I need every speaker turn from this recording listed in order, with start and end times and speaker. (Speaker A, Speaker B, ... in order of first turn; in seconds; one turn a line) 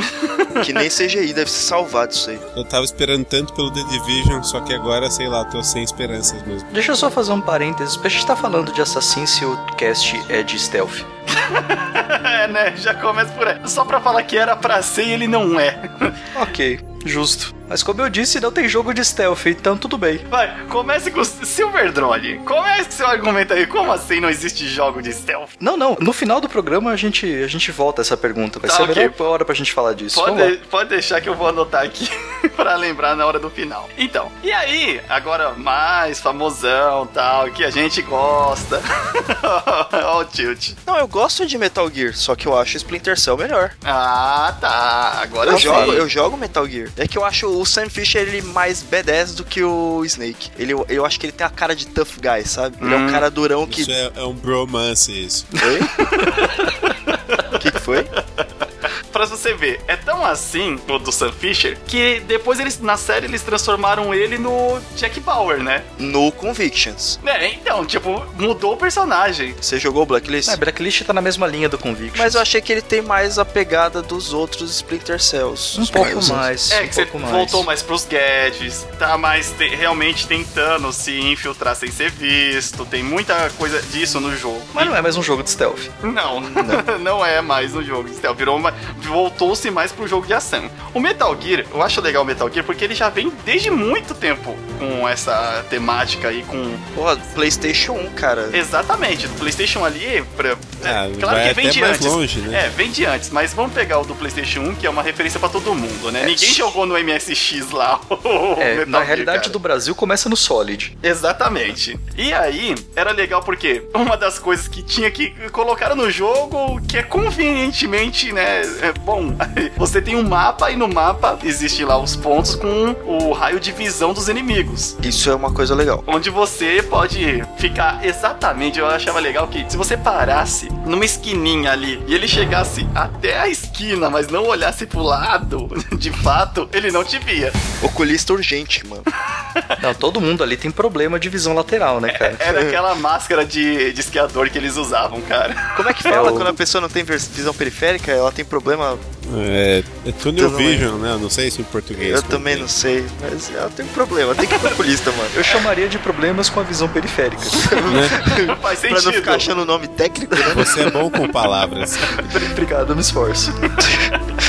Speaker A: 0.2-0.5
Speaker B: 0.6-2.4
Speaker C: 2.5-6.7
Speaker D: 6.7-11.1
Speaker A: 11.3-16.2
Speaker D: 16.3-20.2
Speaker A: 20.3-25.5
Speaker D: 25.6-30.5
Speaker A: 28.6-29.1
Speaker A: 30.1-40.8
Speaker B: 40.9-43.7
Speaker A: 43.8-46.0
Speaker B: 45.4-53.9
Speaker D: 45.5-46.0
Speaker A: 52.8-53.2
Speaker C: 53.7-55.5
Speaker B: 55.6-55.9
Speaker A: 56.2-56.6
Speaker B: 57.5-58.1
Speaker A: 59.1-65.8
Speaker B: 66.0-67.2
Speaker A: 67.2-69.6
Speaker B: 69.6-70.6
Speaker D: 70.4-72.4
Speaker B: 72.1-76.5
Speaker D: 75.8-77.7
Speaker A: 76.7-85.0
Speaker D: 84.7-85.9
Speaker A: 86.0-96.8
Speaker B: 86.5-86.8
Speaker B: 96.9-98.6
Speaker A: 98.5-109.6
Speaker C: 100.8-102.6
Speaker D: 106.2-106.5
Speaker D: 108.6-110.9
Speaker A: 111.0-125.0
Speaker B: 125.0-126.0
Speaker A: 126.1-137.6
Speaker B: 137.8-139.1
Speaker D: 139.8-142.4
Speaker A: 142.1-146.1
Speaker B: 142.4-142.8
Speaker B: 145.7-149.0
Speaker D: 146.1-146.5
Speaker C: 149.2-152.7
Speaker B: 150.2-150.9
Speaker B: 151.9-155.5
Speaker D: 155.3-157.8
Speaker B: 157.5-160.8
Speaker A: 157.8-159.5
Speaker C: 157.9-158.2
Speaker C: 160.5-162.2
Speaker D: 162.1-163.7